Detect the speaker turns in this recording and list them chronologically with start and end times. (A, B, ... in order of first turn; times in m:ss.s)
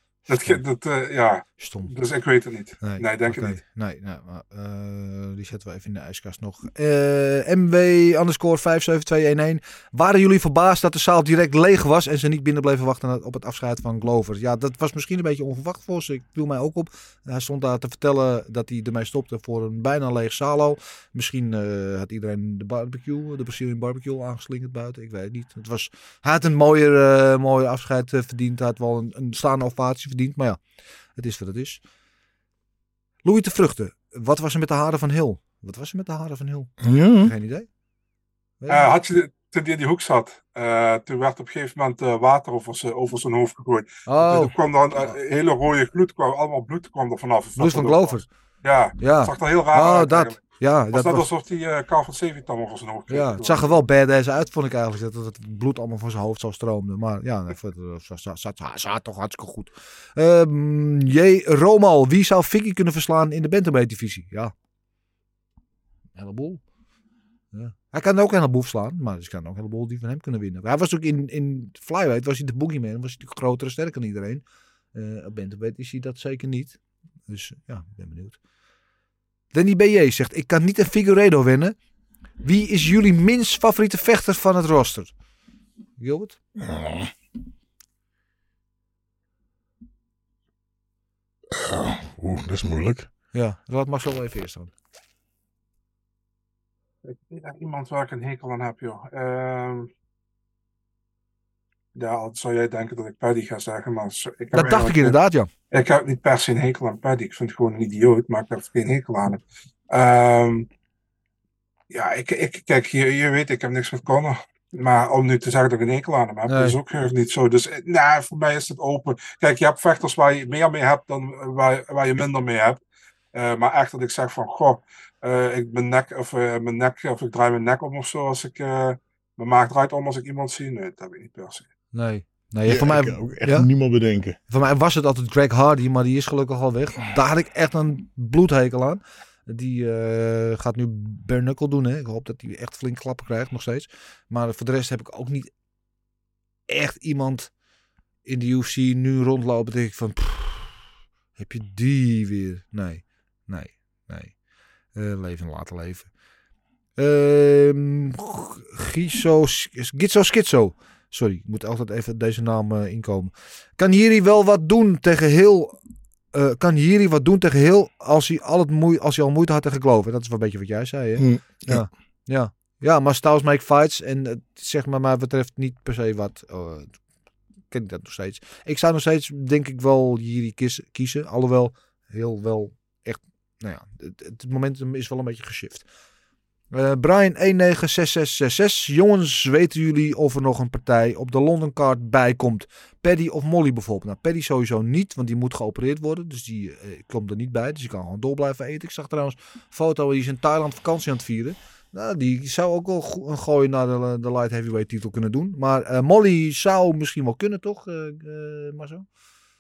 0:00.3-0:03.6 A
0:01.6-0:01.9 B
0:02.8-0:30.6 B
0:31.2-0:31.8 B
0:33.2-0:37.7 B
0:36.8-0:37.3 C
0:38.6-0:38.9 B
0:38.7-0:53.8 A
0:44.1-0:44.5 B
0:47.6-0:48.3 B
0:49.0-0:51.2 B
0:53.1-1:04.5 B
1:06.2-1:06.6 B
1:07.5-1:14.4 B
1:14.9-1:16.8 B
1:17.3-1:18.4 B
1:19.5-1:21.7 B
1:22.4-1:25.1 B
1:26.0-1:26.4 B
1:26.6-1:27.1 C
1:31.5-1:33.1 C
1:33.3-1:34.7 B
1:37.0-1:39.9 A
1:41.9-1:45.2 A
1:44.5-1:45.5 B
1:45.7-1:50.7 A
1:51.9-2:02.8 A
1:56.5-1:56.8 B
2:03.3-2:11.6 A
2:11.9-2:13.7 B
2:12.6-2:14.4 C
2:14.5-2:25.5 B
2:26.7-2:27.5 B
2:28.2-2:30.8 B
2:31.4-2:34.3 B
2:34.9-2:36.1 B
2:37.0-2:45.8 B
2:46.3-2:56.9 B
2:51.2-2:51.9 C
2:57.7-3:05.8 B
3:06.7-3:29.0 B